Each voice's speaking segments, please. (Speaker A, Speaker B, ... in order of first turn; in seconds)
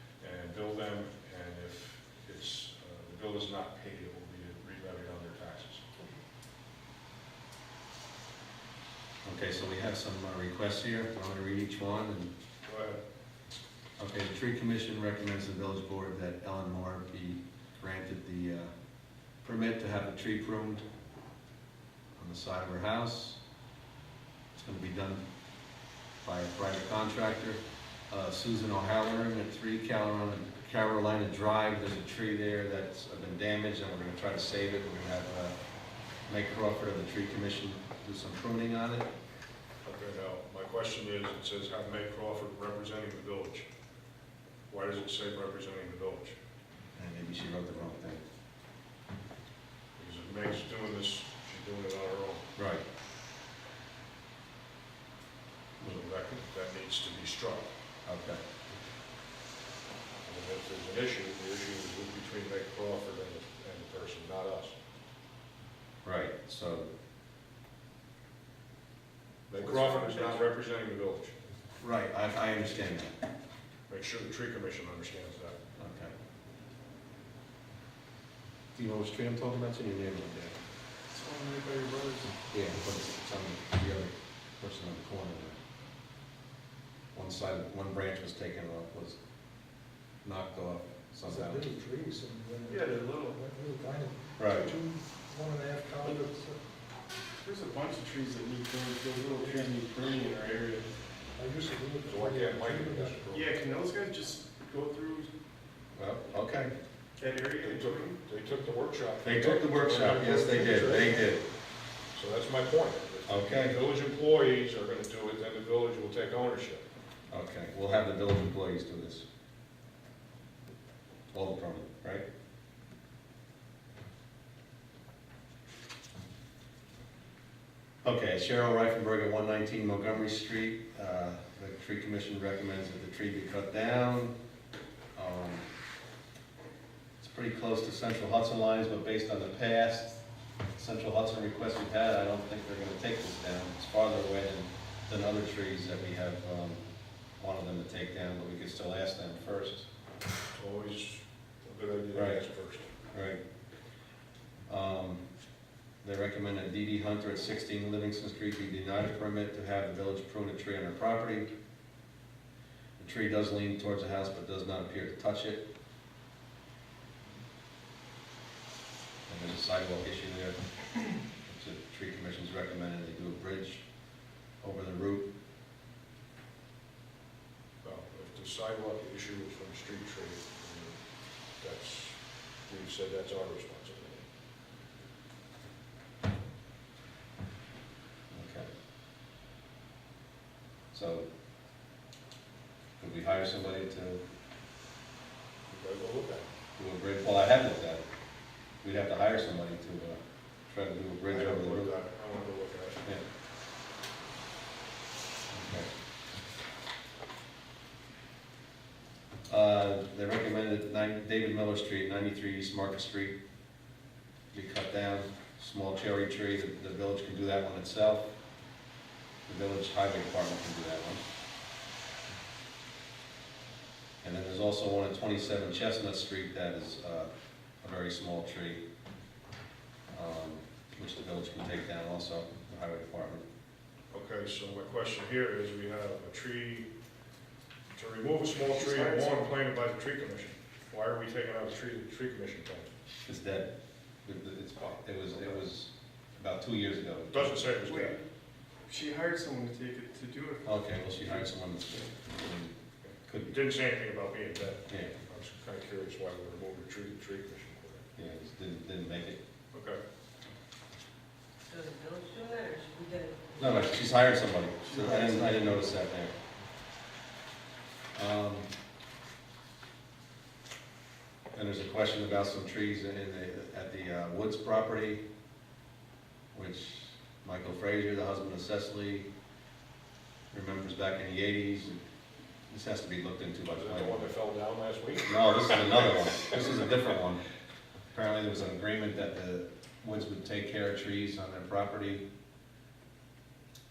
Speaker A: 0.2-5.9, 12.6-13.0, 39.8-43.7, 44.7-46.4, 50.0-52.5, 55.8-57.7, 60.2-64.8, 69.5-71.3, 73.9-75.6, 102.0-103.5, 107.6-111.3, 112.1-116.8, 150.6-152.9, 177.8-181.0, 181.6-184.2, 195.7-196.5, 201.3-203.1, 234.1-236.9, 237.9-242.9, 247.3-248.2, 253.0-258.1, 259.7-260.0, 283.7-285.9
Speaker B: 9.2-12.3, 14.0-18.7, 19.4-20.8, 22.2-23.4, 24.5-25.2, 26.2-35.5, 36.3-39.1, 47.0-48.2, 52.5-52.8, 58.0-58.4, 66.0-66.9, 71.8-73.2, 75.8-76.1, 78.8-80.6, 82.5-85.6, 87.1-89.2, 90.2-91.7, 94.4-94.7, 106.0-106.7, 109.2-111.4, 113.3-113.8, 117.3-119.2, 121.3-122.2, 128.0-134.3, 135.2-135.7, 137.2-140.2, 140.8-146.8, 147.4-149.9, 152.1-152.4, 153.1-153.4, 154.7-155.2, 156.0-161.5, 163.0-165.7, 169.3-170.6, 171.4-173.8, 174.6-175.3, 188.3-188.7, 190.9-191.2, 193.0-194.2, 196.8-198.0, 198.8-201.9, 205.5-205.9, 209.5-213.3, 214.5-218.3, 219.5-221.2, 224.2-227.3, 227.8-228.8, 230.1-233.4, 243.2-243.7, 244.2-247.7, 250.6-252.7, 253.2-253.6, 258.2-259.4, 263.6-266.3, 268.1-268.7, 271.5-275.2, 276.5-279.3, 280.5-282.0, 282.7-284.3, 285.2-287.4, 288.1-292.2
Speaker C: 69.8-70.4, 81.1-82.3, 92.7-93.4, 97.4-100.9, 103.3-105.3, 107.2-108.2, 238.7-239.5, 247.8-248.2, 248.9-251.5, 264.8-265.9
Speaker D: 91.2-96.6, 101.3-103.2
Speaker E: 261.7-264.3